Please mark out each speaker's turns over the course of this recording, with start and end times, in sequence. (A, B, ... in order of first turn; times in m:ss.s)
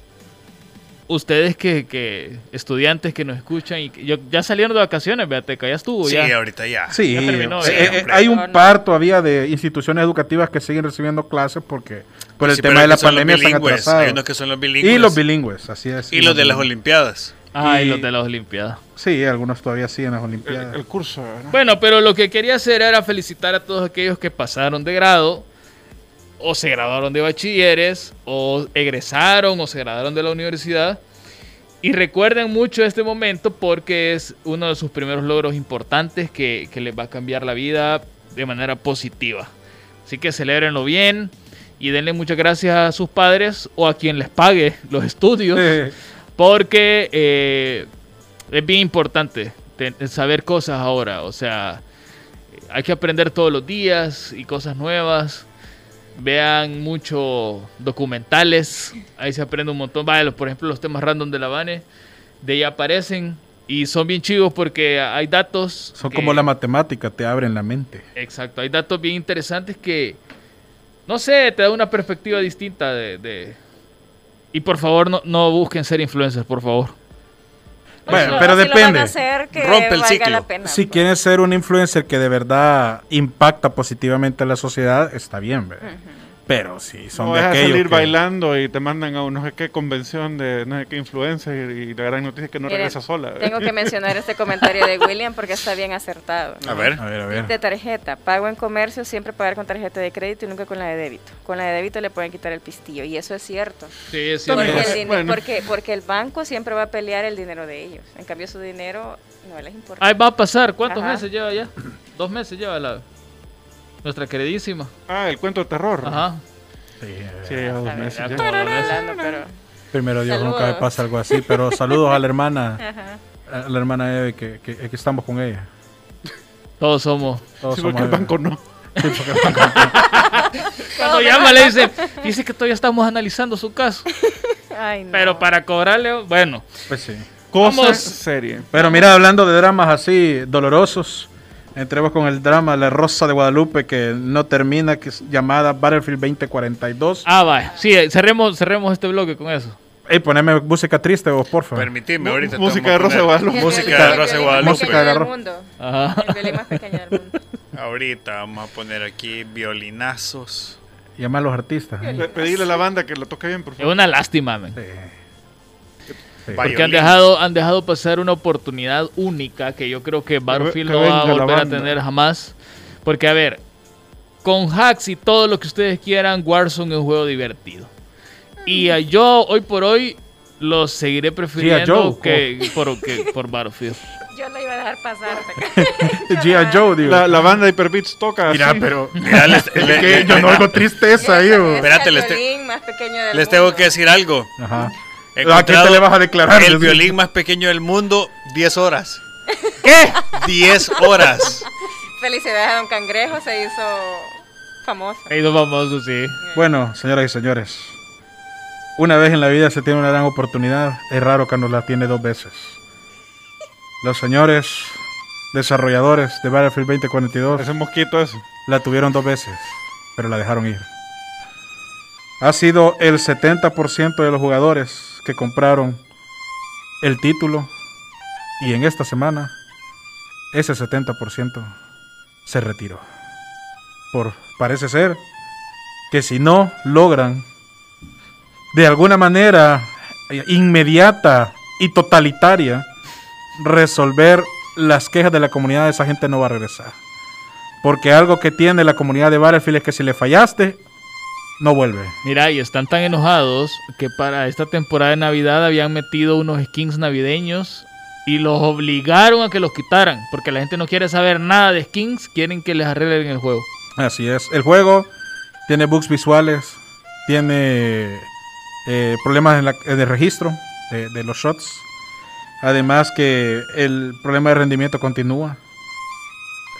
0:01.1-0:06.3 A
0:06.0-0:08.3 B
0:06.9-0:14.2 C
0:07.1-0:08.0 A
0:08.2-0:08.8 D
0:12.4-0:15.2 B
0:14.8-0:16.7 C
0:16.1-0:17.4 B
0:17.5-0:18.8 A
0:17.6-0:18.1 C
0:19.0-0:20.8 C
0:20.5-0:21.6 E
0:21.5-0:25.5 A
0:26.4-0:31.0 A
0:31.8-0:39.5 A
0:40.0-0:45.8 A
0:45.5-0:45.9 C
0:46.4-0:47.9 A
0:48.5-0:51.8 A
0:52.7-0:55.5 A
0:56.2-1:01.8 A
1:02.4-1:06.5 A
1:06.0-1:08.0 C
1:08.2-1:10.2 A
1:11.1-1:13.6 A
1:14.5-1:17.0 A
1:18.1-1:19.2 C
1:18.1-1:21.1 D
1:18.1-1:18.5 A
1:19.5-1:20.4 B
1:20.6-1:25.9 C
1:25.8-1:26.2 D
1:26.5-1:28.1 C
1:27.2-1:33.9 E
1:32.7-1:43.9 D
1:36.6-1:37.0 B
1:37.0-1:37.5 C
1:44.1-1:45.0 A
1:44.5-1:50.1 D
1:44.5-1:45.5 E
1:50.0-1:53.0 A
1:50.9-1:51.2 D
1:54.0-1:54.9 A
1:55.1-1:56.2 E
1:56.0-1:56.4 A
1:57.0-1:57.8 C
1:57.4-1:58.5 E
1:57.8-1:59.5 D
1:58.1-1:59.0 A
1:59.9-2:02.8 C
2:00.3-2:02.0 D
2:02.8-2:03.2 D
2:03.5-2:05.7 C
2:06.8-2:07.4 A
2:07.6-2:08.4 C
2:07.7-2:08.6 E
2:09.0-2:10.1 C
2:09.0-2:14.1 A
2:10.9-2:12.3 D
2:14.2-2:15.5 D
2:15.1-2:16.7 A
2:16.9-2:17.3 C
2:17.5-2:18.7 E
2:17.6-2:18.2 A
2:18.7-2:27.3 C
2:18.8-2:19.1 D
2:27.2-2:29.8 A
2:30.1-2:31.9 C
2:31.8-2:35.1 B
2:32.2-2:34.4 E
2:33.5-2:37.4 D
2:33.8-2:35.3 C
2:35.8-2:36.8 A
2:37.7-2:40.8 B
2:41.2-2:42.2 C
2:42.0-2:42.8 D
2:42.2-2:44.0 E
2:43.8-2:44.8 A
2:44.8-2:45.1 C
2:46.5-2:46.7 C
2:46.5-2:47.2 B
2:46.6-2:53.6 A
2:50.5-2:52.0 E
2:54.4-2:57.9 A
2:58.6-3:04.0 A
3:01.6-3:02.5 C
3:04.3-3:07.1 D
3:05.6-3:07.4 C
3:07.0-3:08.9 E
3:08.5-3:11.9 C
3:09.2-3:10.8 B
3:09.2-3:09.5 A
3:11.1-3:13.9 D
3:11.8-3:12.4 B
3:13.3-3:14.5 B
3:14.6-3:17.2 C
3:15.4-3:19.2 B
3:19.5-3:20.2 D
3:19.8-3:20.2 A
3:20.3-3:21.7 B
3:20.9-3:21.5 D
3:22.2-3:24.3 D
3:24.8-3:25.3 D
3:25.3-3:26.4 A
3:26.4-3:26.7 D
3:26.5-3:28.0 C
3:29.0-3:32.8 C
3:34.0-3:35.0 C
3:35.5-3:37.7 C
3:37.6-3:38.5 E
3:38.7-3:40.9 C
3:42.4-3:46.0 C
3:47.0-3:47.7 C
3:48.6-3:49.6 C
3:50.5-3:51.7 C
3:52.5-3:53.0 C
3:54.1-3:55.2 C
3:56.1-3:57.5 C
3:58.7-4:02.9 C
4:03.6-4:07.0 C
4:07.8-4:10.8 C
4:11.6-4:12.2 C
4:12.2-4:23.7 A
4:24.0-4:25.1 C
4:25.7-4:28.3 C
4:28.8-4:31.8 C
4:32.6-4:35.6 C